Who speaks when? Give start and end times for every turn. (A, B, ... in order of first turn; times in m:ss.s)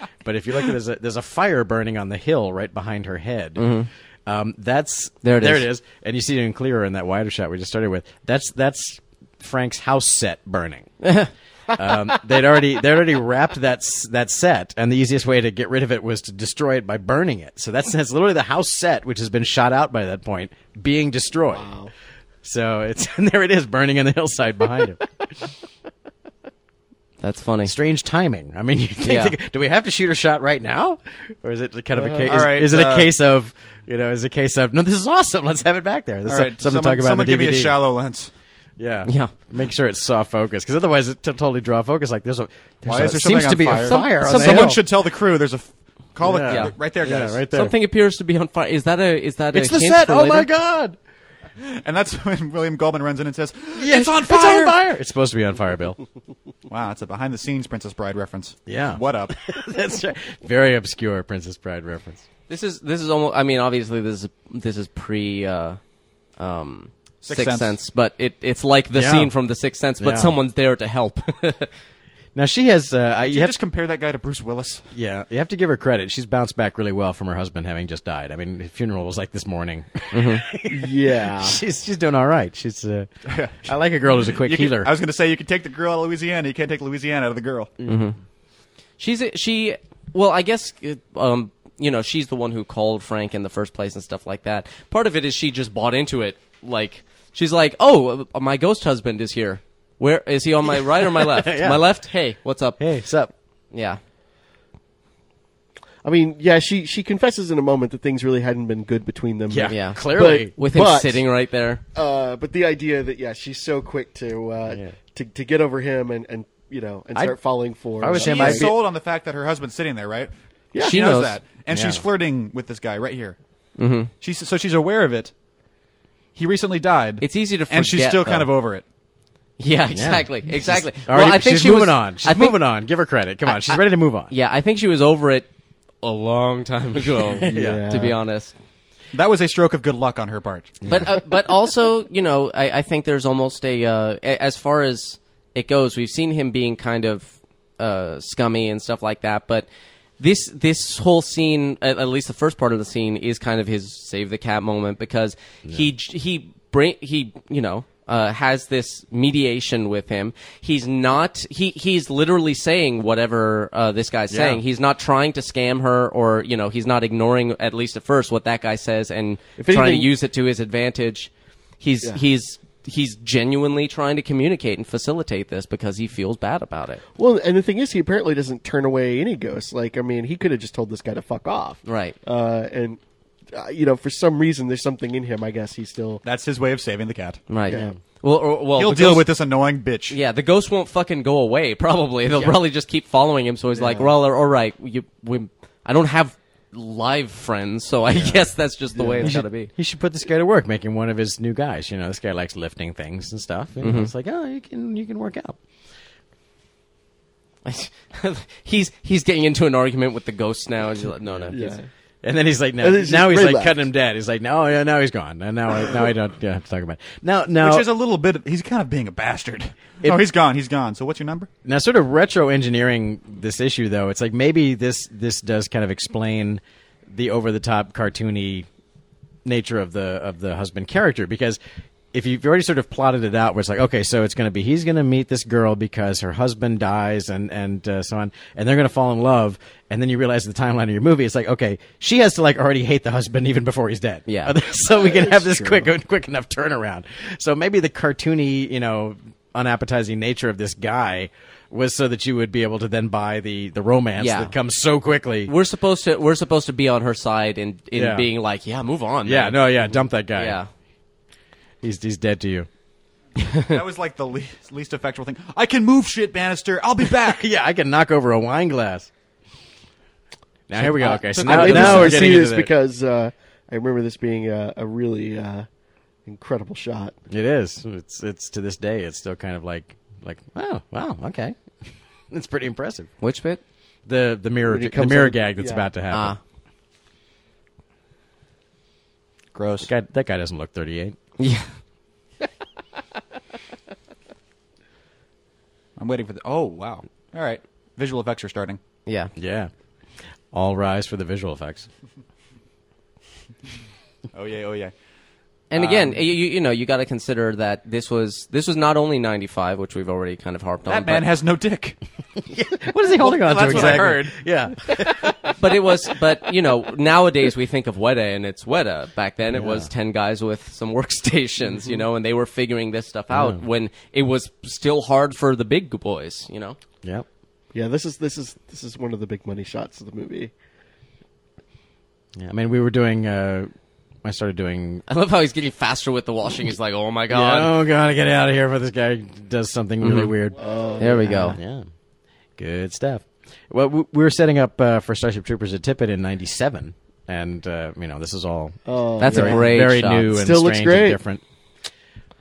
0:00.2-0:10.9 A
0:03.6-0:03.9 B
0:05.2-0:05.7 B
0:11.0-0:11.3 B
0:11.7-0:21.7 A
0:21.5-0:21.9 C
0:22.4-0:25.1 A
0:27.2-0:27.7 B
0:27.6-0:37.8 A
0:29.0-0:29.4 B
0:32.0-0:32.3 C
0:32.2-0:33.1 D
0:36.3-0:38.3 D
0:38.8-0:44.8 A
0:39.1-0:39.3 B
0:42.8-0:47.4 D
0:43.6-0:44.7 B
0:46.2-0:47.7 A
0:46.5-0:46.7 B
0:47.5-0:50.5 B
0:49.5-0:51.0 A
0:51.6-0:54.8 D
0:53.8-0:56.0 A
0:56.7-0:59.4 D
0:58.7-1:02.2 A
1:02.5-1:05.8 B
1:06.4-1:11.7 B
1:07.2-1:07.7 D
1:09.0-1:09.3 A
1:10.0-1:10.3 A
1:12.4-1:13.6 A
1:13.2-1:14.9 D
1:14.9-1:23.1 A
1:20.1-1:20.4 B
1:20.7-1:21.6 C
1:23.2-1:23.7 D
1:23.6-1:24.9 A
1:24.2-1:27.7 D
1:27.9-1:28.2 B
1:29.0-1:42.8 B
1:41.0-1:41.9 A
1:42.8-1:43.3 A
1:43.7-1:44.0 B
1:46.0-1:51.2 C
1:49.5-1:50.5 A
1:49.7-1:51.8 B
1:51.9-1:58.8 C
1:58.0-1:58.7 A
1:58.1-2:03.4 D
2:00.8-2:01.4 B
2:01.7-2:02.0 A
2:03.8-2:04.1 B
2:04.2-2:05.3 D
2:06.4-2:08.8 D
2:07.2-2:08.5 B
2:09.6-2:12.6 B
2:09.9-2:14.3 A
2:13.5-2:15.5 B
2:16.0-2:18.5 B
2:17.4-2:18.2 C
2:17.4-2:17.8 A
2:19.1-2:20.8 D
2:20.9-2:29.7 B
2:30.2-2:57.0 B
2:44.3-2:44.6 A
2:49.6-2:50.1 C
2:57.2-3:03.0 C
3:01.8-3:02.2 B
3:03.5-3:06.2 C
3:06.2-3:07.4 D
3:07.5-3:09.3 B
3:07.7-3:08.0 C
3:08.8-3:10.2 D
3:10.1-3:19.7 B
3:13.8-3:14.1 C
3:19.0-3:19.4 C
3:19.2-3:25.6 A
3:23.8-3:24.1 B
3:27.6-3:31.8 B
3:31.5-3:31.8 C
3:32.2-3:37.9 A
3:32.8-3:33.8 C
3:37.6-3:41.5 D
3:41.6-3:48.7 A
3:49.4-3:51.6 A
3:52.1-4:15.5 A
4:04.3-4:04.5 B
4:04.9-4:05.9 C
4:14.2-4:14.5 B
4:15.4-4:19.7 B
4:17.9-4:18.3 A
4:19.3-4:20.6 A
4:20.3-4:20.7 B
4:21.8-4:22.7 A
4:23.4-4:23.7 B
4:23.7-4:27.4 D
4:27.2-4:29.1 A
4:30.7-4:32.7 A
4:30.8-4:35.7 C
4:31.1-4:32.4 B
4:36.3-4:37.1 C
4:37.3-4:43.1 A
4:43.2-4:43.6 B
4:44.1-4:46.4 A
4:44.6-4:45.9 C
4:46.1-4:46.4 B
4:49.5-4:49.9 D
4:49.8-4:51.2 A
4:51.4-4:51.7 B
4:56.0-4:58.8 D
4:59.1-4:59.3 B
4:59.4-4:59.7 A
5:00.5-5:01.9 A
5:04.3-5:04.9 D
5:05.7-5:11.3 B
5:05.7-5:06.2 D
5:10.9-5:12.0 D
5:12.4-5:15.7 A
5:13.2-5:14.4 D
5:15.6-5:26.8 B
5:19.5-5:19.9 A
5:23.3-5:23.6 A
5:27.7-5:30.5 C
5:32.4-5:33.7 A
5:34.2-5:35.0 A
5:35.1-5:37.7 B
5:37.3-5:40.7 A
5:40.0-5:40.4 B
5:40.6-5:41.6 C
5:41.0-5:41.6 B
5:41.3-5:41.9 A
5:42.6-5:51.4 A
5:48.9-5:51.2 C
5:49.2-5:50.3 B